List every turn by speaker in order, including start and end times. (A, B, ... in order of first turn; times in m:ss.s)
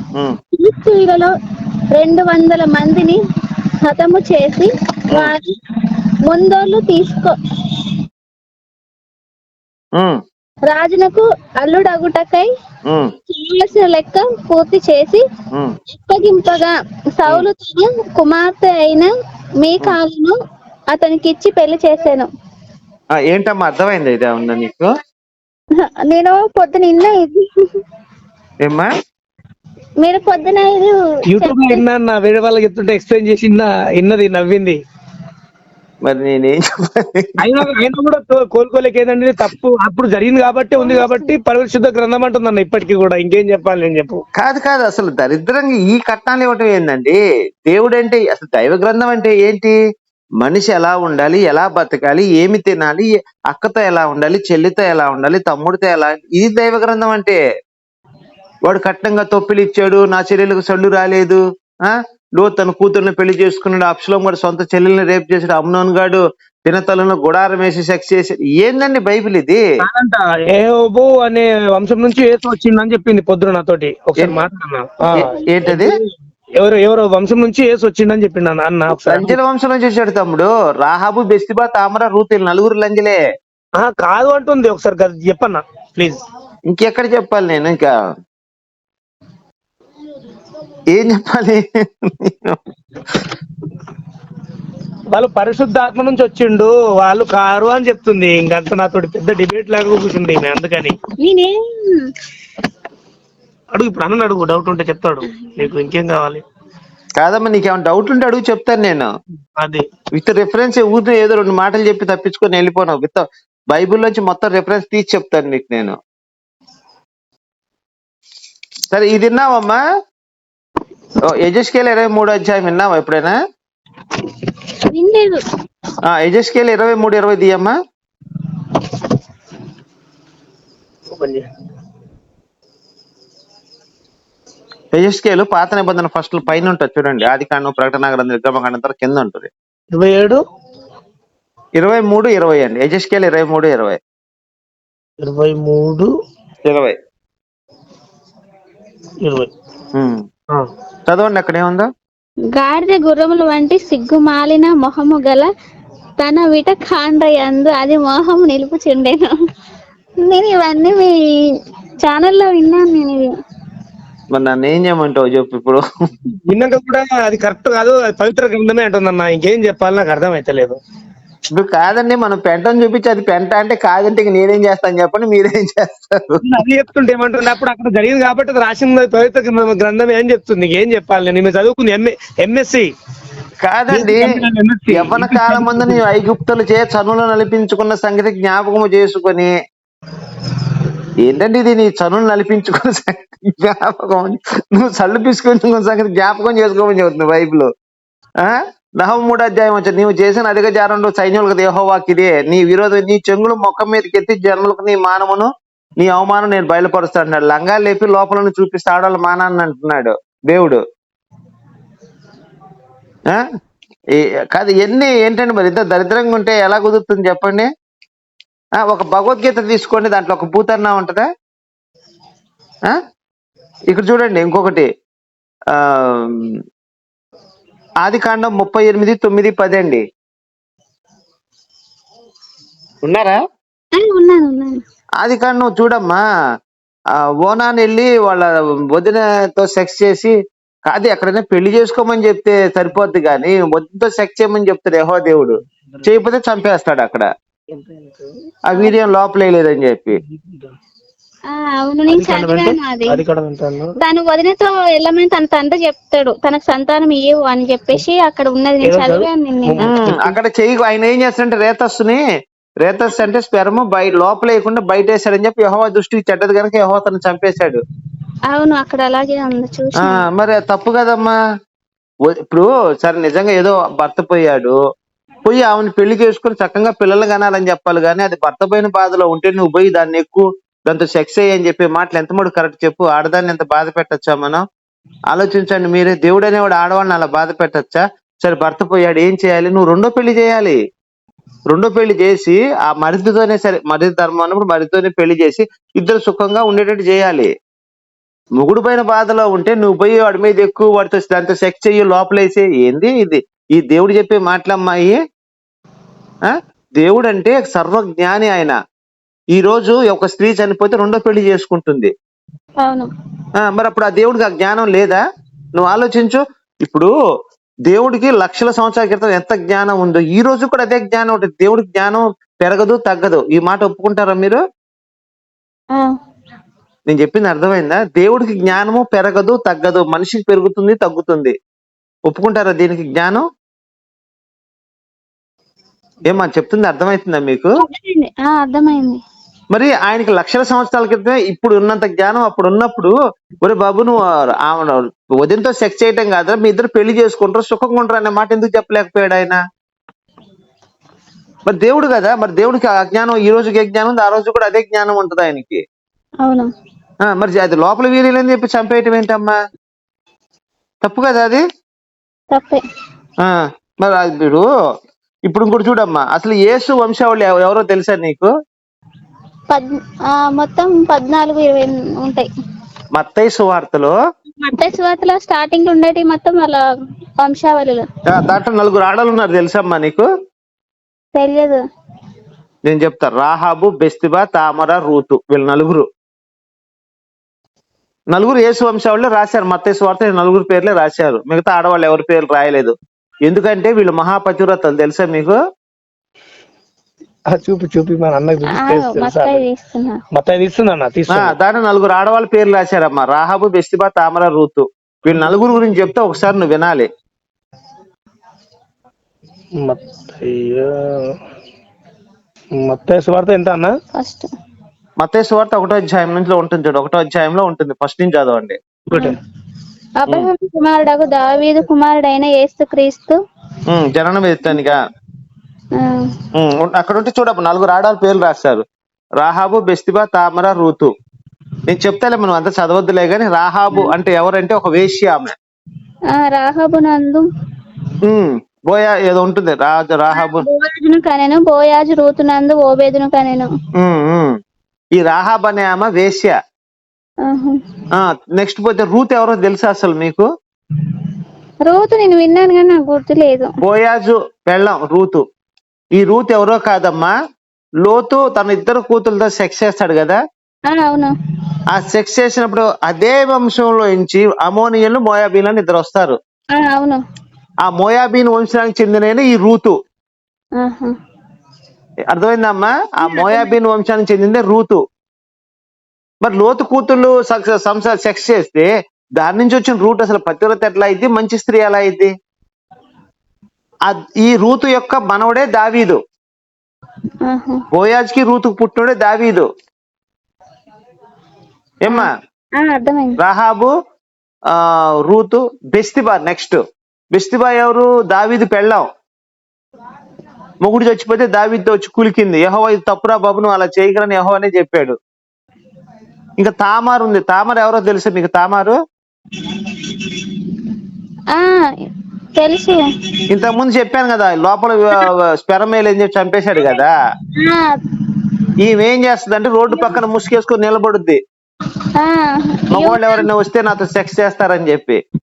0:00.5-0:01.3 A
0:01.9-0:03.2 A
0:03.8-0:07.9 A
0:10.7-0:12.5 A
0:12.9-0:13.1 B
0:13.3-0:15.2 A
0:15.9-0:20.4 A
0:20.9-0:22.3 A
0:23.2-0:24.9 B
0:25.8-0:27.8 A
0:28.6-0:28.9 B
0:30.0-0:31.8 A
0:31.3-0:34.8 C
0:36.0-0:37.6 B
0:37.4-0:44.2 C
0:40.8-0:41.3 A
0:44.4-0:49.8 B
0:50.4-0:57.4 B
0:58.7-1:09.6 B
1:09.8-1:16.0 C
1:15.1-1:15.8 A
1:15.4-1:15.9 B
1:16.6-1:19.4 C
1:18.9-1:23.2 B
1:23.8-1:26.2 C
1:26.7-1:27.9 B
1:30.9-1:33.3 B
1:35.1-1:41.0 C
1:41.2-1:42.1 A
1:43.7-1:46.4 C
1:47.2-1:49.1 B
1:50.1-1:56.0 B
1:58.9-1:59.8 B
2:01.3-2:03.4 B
2:04.9-2:05.4 A
2:06.1-2:07.8 B
2:11.1-2:11.5 C
2:14.9-2:19.5 B
2:19.9-2:20.4 C
2:21.8-2:24.0 B
2:25.2-2:26.1 C
2:26.7-2:27.0 B
2:29.2-2:29.5 C
2:29.9-2:30.2 B
2:31.1-2:31.9 B
2:32.5-2:35.5 A
2:36.2-2:39.4 A
2:40.2-2:43.3 A
2:44.3-2:45.8 B
2:46.5-2:50.8 C
2:51.5-2:56.4 B
2:56.4-3:02.9 C
3:03.6-3:04.3 B
3:03.9-3:06.0 C
3:04.9-3:09.5 B
3:11.2-3:17.7 B
3:18.4-3:30.8 B
3:34.1-3:37.7 B
3:38.8-3:41.3 B
3:43.9-3:44.9 B
3:45.7-3:46.6 B
3:48.0-3:50.0 B
3:53.0-3:53.4 B
3:54.0-3:54.8 A
3:55.2-3:56.2 B
3:57.4-4:00.3 B
4:00.9-4:07.3 B
4:05.8-4:06.1 C
4:07.7-4:08.3 C
4:08.7-4:10.2 B
4:10.2-4:10.7 C
4:11.5-4:13.2 A
4:12.1-4:14.0 C
4:14.0-4:19.8 A
4:18.8-4:20.4 C
4:19.8-4:22.2 B
4:22.8-4:27.8 B
4:28.5-4:30.3 A
4:30.0-4:31.4 B
4:32.5-4:34.8 B
4:35.4-4:44.6 B
4:45.3-4:50.8 B
4:51.7-4:57.5 B
4:58.6-5:05.2 B
5:06.4-5:08.8 B
5:09.5-5:12.1 B
5:12.8-5:13.1 A
5:13.6-5:15.2 B
5:15.8-5:17.1 B
5:17.9-5:24.6 B
5:27.1-5:31.5 B
5:32.3-5:33.4 B
5:36.3-5:37.7 B
5:37.8-5:39.2 A
5:39.7-5:49.6 B
5:51.7-5:55.8 B
5:56.4-5:56.7 A
5:57.2-5:59.6 B
6:01.0-6:01.6 B
6:02.5-6:02.8 A
6:03.4-6:04.7 B
6:05.5-6:08.5 B
6:09.7-6:12.5 A
6:13.2-6:14.2 B
6:14.6-6:16.8 A
6:17.4-6:18.1 A
6:18.3-6:20.3 B
6:21.4-6:21.8 A
6:22.9-6:26.1 B
6:28.3-6:32.9 B
6:33.5-6:35.6 B
6:37.5-6:39.6 C
6:38.7-6:40.2 A
6:40.3-6:41.6 C
6:41.3-6:47.1 B
6:49.8-6:51.4 C
6:52.8-6:53.9 C
6:54.2-6:54.5 A
6:55.2-6:58.8 B
6:59.1-6:59.4 C
7:00.2-7:03.4 A
7:03.9-7:05.0 B
7:06.0-7:06.3 A
7:06.5-7:08.8 B
7:09.4-7:11.1 B
7:11.9-7:15.5 B
7:16.3-7:17.5 A
7:18.2-7:20.7 B
7:20.3-7:23.7 A
7:24.0-7:24.6 B
7:25.2-7:26.6 B
7:27.4-7:27.8 A
7:28.1-7:30.5 B
7:31.9-7:33.7 A
7:33.8-7:35.4 B
7:36.2-7:37.3 B
7:38.0-7:40.4 B
7:40.9-7:41.3 A
7:41.9-7:46.4 B
7:46.8-7:47.2 A
7:47.8-7:50.0 B
7:50.8-7:51.1 A
7:52.3-7:55.0 B
7:53.3-7:53.7 A
7:56.4-8:02.3 B
8:04.1-8:06.2 B
8:07.4-8:07.8 A
8:07.9-8:09.7 B
8:12.0-8:12.3 B
8:12.1-8:13.4 A
8:13.4-8:13.9 B
8:14.7-8:16.8 B
8:17.3-8:19.1 B
8:20.8-8:25.2 B
8:26.6-8:29.0 B
8:29.7-8:30.6 A
8:31.5-8:31.9 A
8:32.6-8:33.4 A
8:33.5-8:37.1 B
8:37.6-8:38.0 A
8:38.8-8:41.4 B
8:39.9-8:40.2 A
8:42.2-8:43.5 A
8:42.9-8:45.2 B